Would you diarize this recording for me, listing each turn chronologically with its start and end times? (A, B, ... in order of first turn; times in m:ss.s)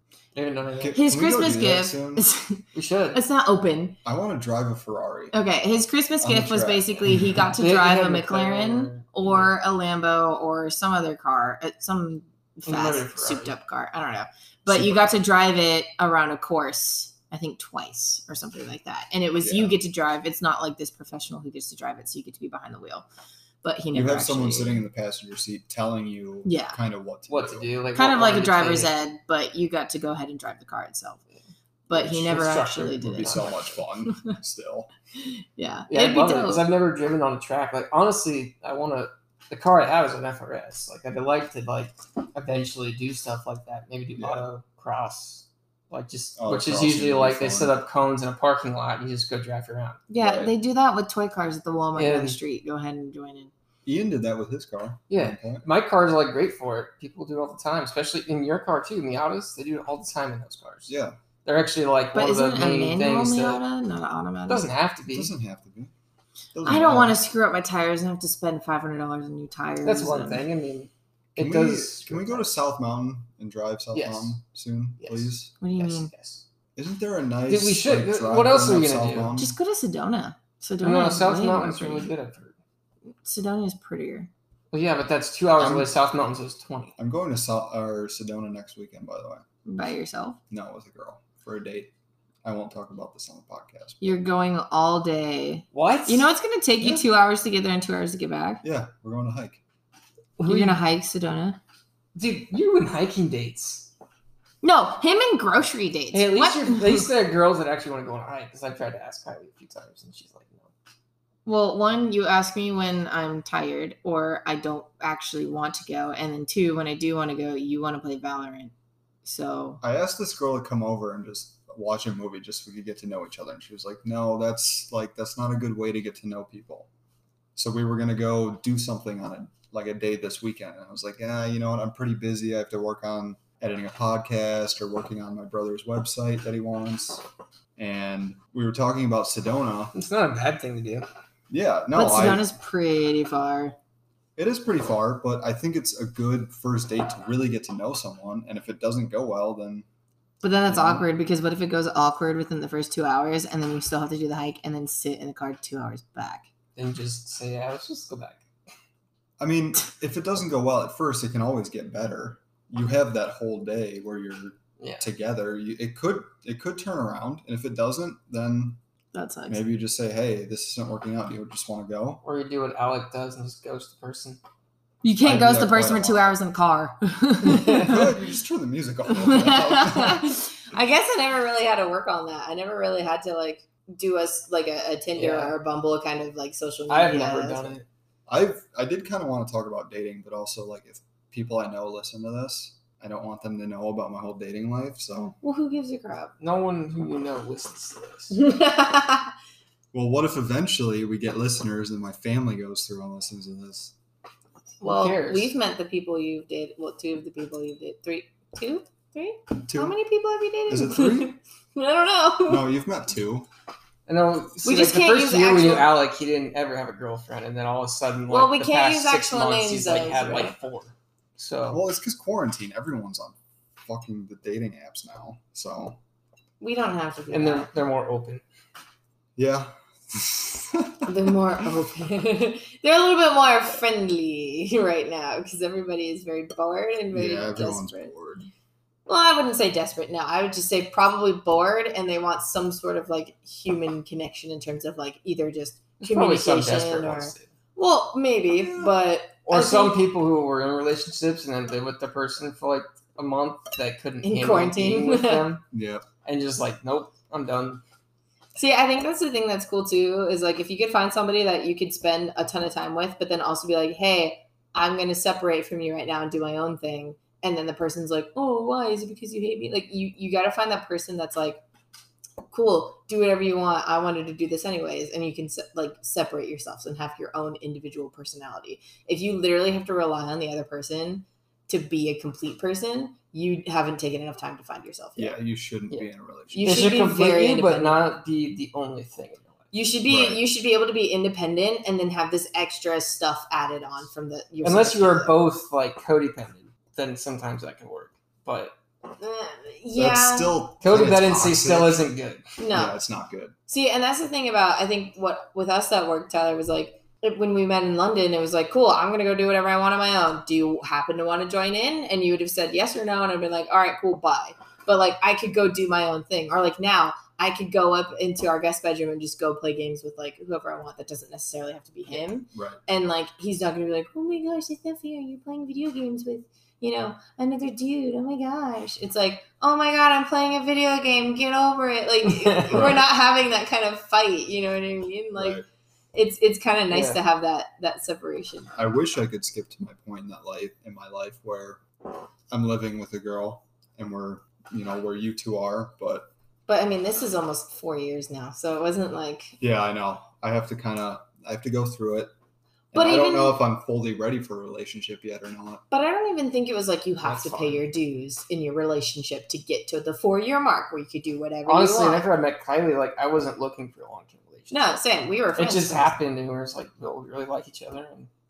0:00.4-0:01.0 A
0:00.7-0:02.3 B
0:00.9-0:04.0 C
0:02.7-0:03.2 A
0:04.0-0:05.4 B
0:05.3-0:23.1 C
0:06.2-0:07.4 B
0:07.6-0:09.6 A
0:12.7-0:13.5 A
0:14.7-0:15.1 B
0:19.4-0:19.8 B
0:23.6-0:24.8 C
0:23.9-0:27.7 B
0:26.4-0:26.8 C
0:27.3-0:28.9 A
0:28.0-0:31.2 C
0:31.9-0:33.5 C
0:31.9-0:33.8 A
0:33.0-0:34.9 B
0:34.1-0:34.3 C
0:35.2-0:36.7 C
0:35.9-0:50.0 A
0:44.2-0:44.4 B
0:46.4-0:47.8 B
0:50.1-0:53.5 C
0:50.2-0:50.5 B
0:52.0-0:52.4 A
0:53.8-0:55.6 B
0:55.1-1:00.9 A
1:00.9-1:01.2 B
1:01.4-1:03.6 A
1:02.1-1:04.7 C
1:04.5-1:05.3 A
1:05.1-1:05.9 B
1:06.5-1:07.2 B
1:06.6-1:10.4 C
1:09.8-1:12.5 A
1:11.4-1:15.5 B
1:13.9-1:14.4 A
1:15.0-1:16.4 A
1:15.6-1:16.1 C
1:16.8-1:19.6 B
1:17.5-1:19.4 A
1:19.4-1:22.1 C
1:20.8-1:22.6 A
1:23.2-1:24.3 C
1:24.7-1:27.0 A
1:25.6-1:25.9 B
1:27.0-1:29.4 B
1:29.7-1:30.4 C
1:30.5-1:31.9 B
1:32.4-1:34.2 B
1:34.0-1:38.6 C
1:35.7-1:36.3 A
1:38.6-1:39.6 B
1:40.4-1:40.8 A
1:40.4-1:41.6 C
1:42.2-1:43.9 A
1:44.6-1:47.1 C
1:46.1-1:50.7 A
1:51.5-1:58.7 C
1:59.2-1:59.8 C
1:59.8-2:06.9 B
2:07.6-2:17.2 B
2:17.8-2:19.9 B
2:19.9-2:21.1 A
2:21.5-2:22.4 B
2:21.9-2:23.8 C
2:24.4-2:29.9 B
2:30.4-2:36.5 C
2:30.7-2:31.1 B
2:36.8-2:38.4 A
2:39.4-2:48.8 B
2:44.8-2:45.0 A
2:49.1-2:49.6 C
2:49.5-2:52.2 B
2:52.2-2:54.4 A
2:55.0-2:58.0 C
2:55.2-2:56.4 B
2:57.5-2:58.0 A
2:57.7-3:00.3 B
2:59.1-3:07.8 C
3:05.2-3:05.6 A
3:06.9-3:07.8 A
3:08.3-3:15.4 B
3:15.4-3:16.3 C
3:16.4-3:18.4 A
3:18.3-3:19.3 C
3:19.9-3:23.9 B
3:24.8-3:32.6 C
3:24.8-3:25.5 A
3:29.7-3:30.0 B
3:30.7-3:31.4 B
3:32.5-3:33.5 B
3:34.1-3:41.8 A
3:34.6-3:35.9 C
3:38.3-3:40.6 C
3:41.7-3:46.0 B
3:46.6-3:47.7 C
3:47.3-3:48.4 A
3:49.4-3:51.3 B
3:51.1-3:58.1 C
3:57.1-3:58.5 B
3:59.1-4:10.0 C
4:06.0-4:07.5 A
4:08.6-4:08.9 B
4:09.5-4:15.6 A
4:14.2-4:15.5 C
4:15.7-4:16.1 B
4:16.2-4:17.8 A
4:18.6-4:31.6 C
4:32.5-4:45.4 C
4:45.2-4:47.0 B
4:46.5-4:48.0 C
4:46.6-4:49.7 A
4:49.7-4:55.4 C
4:50.1-4:50.4 B
4:54.6-4:58.7 A
4:59.2-5:00.6 C
5:00.0-5:02.1 B
5:00.8-5:02.4 A
5:02.6-5:03.0 C
5:02.7-5:03.6 B
5:03.7-5:35.6 C
5:22.5-5:22.8 B
5:32.4-5:32.9 A
5:32.7-5:33.0 B
5:35.4-5:35.7 B
5:36.1-5:38.8 C
5:36.9-5:37.2 A
5:38.8-5:41.8 B
5:42.5-5:46.3 B
5:46.7-5:49.6 C
5:49.6-5:52.3 B
5:52.9-5:55.8 B
5:52.9-5:53.6 C
5:55.9-6:02.3 C
5:57.4-5:57.7 B
6:01.7-6:05.0 A
6:04.7-6:06.2 C
6:05.6-6:08.3 A